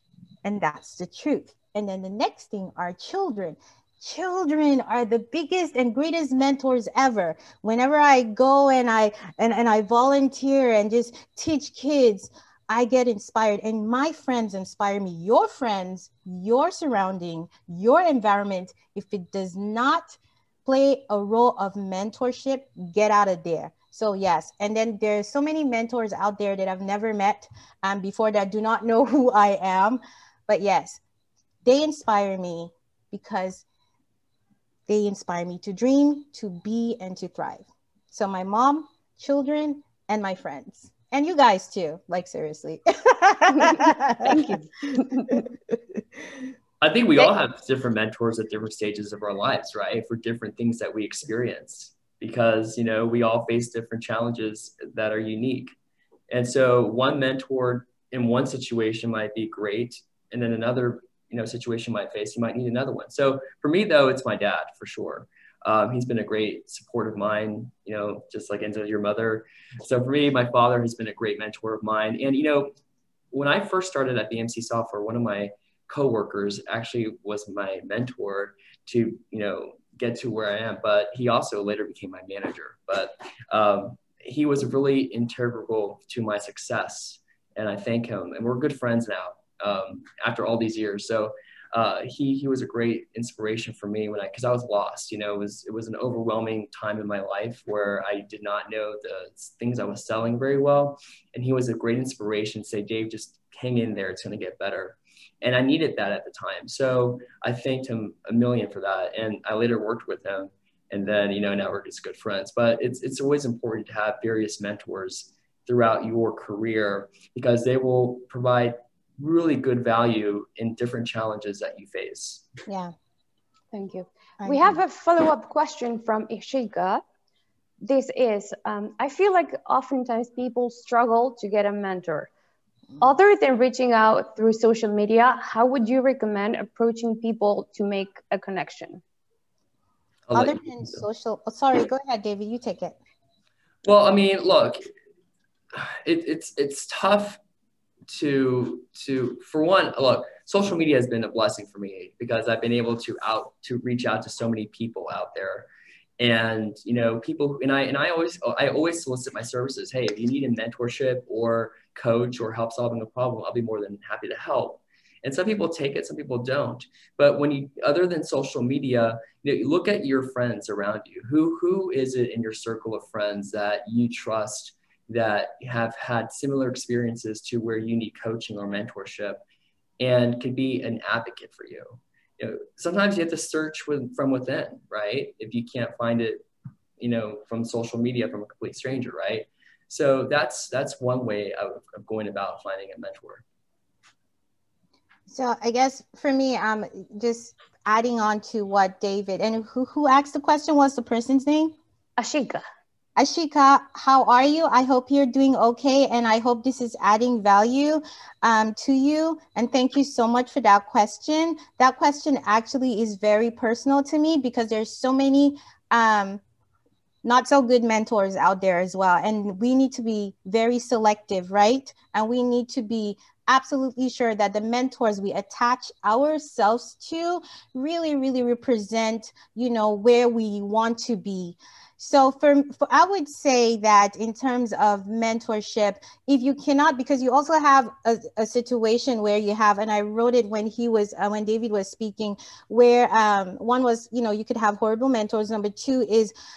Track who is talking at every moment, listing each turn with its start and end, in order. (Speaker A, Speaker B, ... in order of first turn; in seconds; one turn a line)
Speaker A: 0.4-31.0
Speaker A: 31.6-33.6
Speaker A: 34.9-44.5
Speaker B: 44.2-45.4
Speaker C: 46.8-55.7
Speaker C: 56.3-72.7
Speaker C: 73.3-122.5
Speaker A: 122.7-122.9
Speaker B: 123.7-127.0
Speaker A: 124.4-124.8
Speaker B: 127.8-132.3
Speaker B: 133.0-139.0
Speaker C: 140.3-141.0
Speaker A: 140.3-143.0
Speaker C: 143.8-144.8
Speaker C: 145.7-147.4
Speaker C: 148.1-155.7
Speaker C: 156.2-179.4
Speaker C: 180.0-186.4
Speaker C: 187.0-193.4
Speaker A: 195.3-201.7
Speaker B: 202.2-202.6
Speaker A: 203.2-216.4
Speaker A: 217.2-246.3